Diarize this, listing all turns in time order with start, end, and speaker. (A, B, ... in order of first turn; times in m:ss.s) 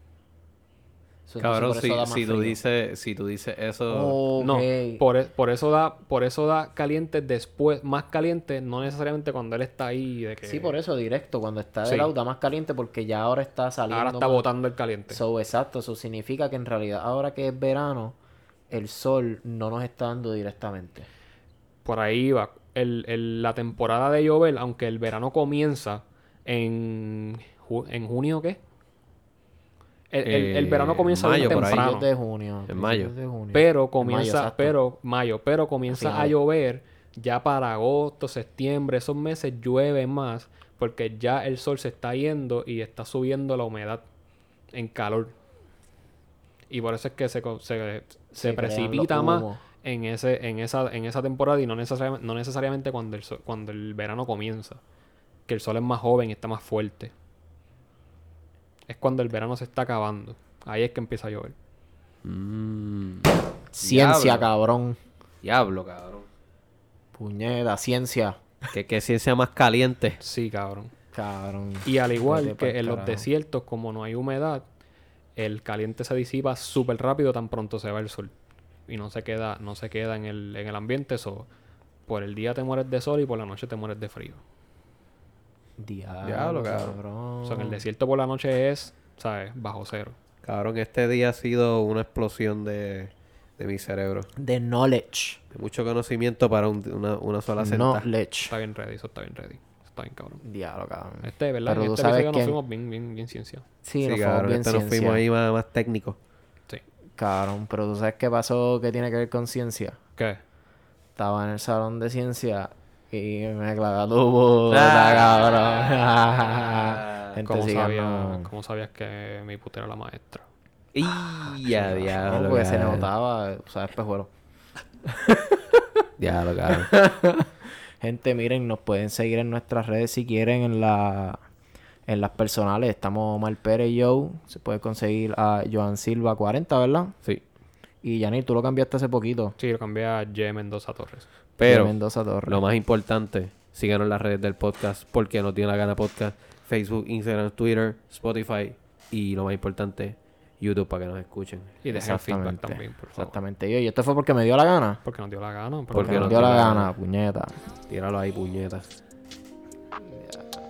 0:01.3-0:02.6 A
0:01.4-0:04.2 B
0:03.9-0:05.0 A
0:04.4-0:10.7 C
0:10.4-0:14.4 A
0:11.8-0:12.1 C
0:13.9-0:15.2 C
0:15.1-0:18.2 A
0:18.7-0:21.1 A
0:21.8-0:28.6 C
0:30.1-0:32.1 C
0:30.2-0:31.9 B
0:31.5-0:34.7 A
0:32.7-0:33.1 B
0:33.5-0:44.0 C
0:35.9-0:36.4 A
0:44.7-0:45.3 C
0:46.7-0:54.8 C
0:48.4-0:49.6 A
0:55.5-0:57.1 C
0:58.9-1:01.6 C
1:02.2-1:04.4 B
1:03.7-1:05.0 A
1:05.4-1:06.3 B
1:07.1-1:08.4 A
1:08.7-1:10.2 B
1:10.2-1:10.9 C
1:11.1-1:13.3 A
1:11.8-1:14.6 C
1:15.4-1:18.3 C
1:18.9-1:21.5 C
1:22.1-1:24.4 C
1:25.8-1:27.8 A
1:26.2-1:27.0 B
1:27.4-1:30.2 C
1:30.4-1:34.3 B
1:34.4-1:35.4 A
1:35.5-1:38.0 B
1:37.6-1:38.5 A
1:38.5-1:40.4 C
1:40.4-1:42.6 A
1:41.2-1:43.6 C
1:43.8-1:45.2 A
1:44.0-1:46.2 B
1:47.2-1:50.0 A
1:51.2-1:58.5 A
1:54.7-1:57.4 B
1:57.4-2:00.4 C
2:00.9-2:03.1 B
2:01.7-2:04.3 A
2:05.0-2:05.8 A
2:06.2-2:07.0 B
2:06.7-2:11.4 A
2:12.0-2:17.2 A
2:18.0-2:19.6 A
2:19.6-2:21.3 C
2:21.6-2:21.9 B
2:21.6-2:22.6 A
2:22.4-2:31.7 B
2:31.8-2:33.4 C
2:31.9-2:35.0 A
2:35.0-2:36.8 C
2:35.9-2:36.9 B
2:35.9-2:37.6 A
2:37.9-2:39.0 B
2:40.0-2:40.5 A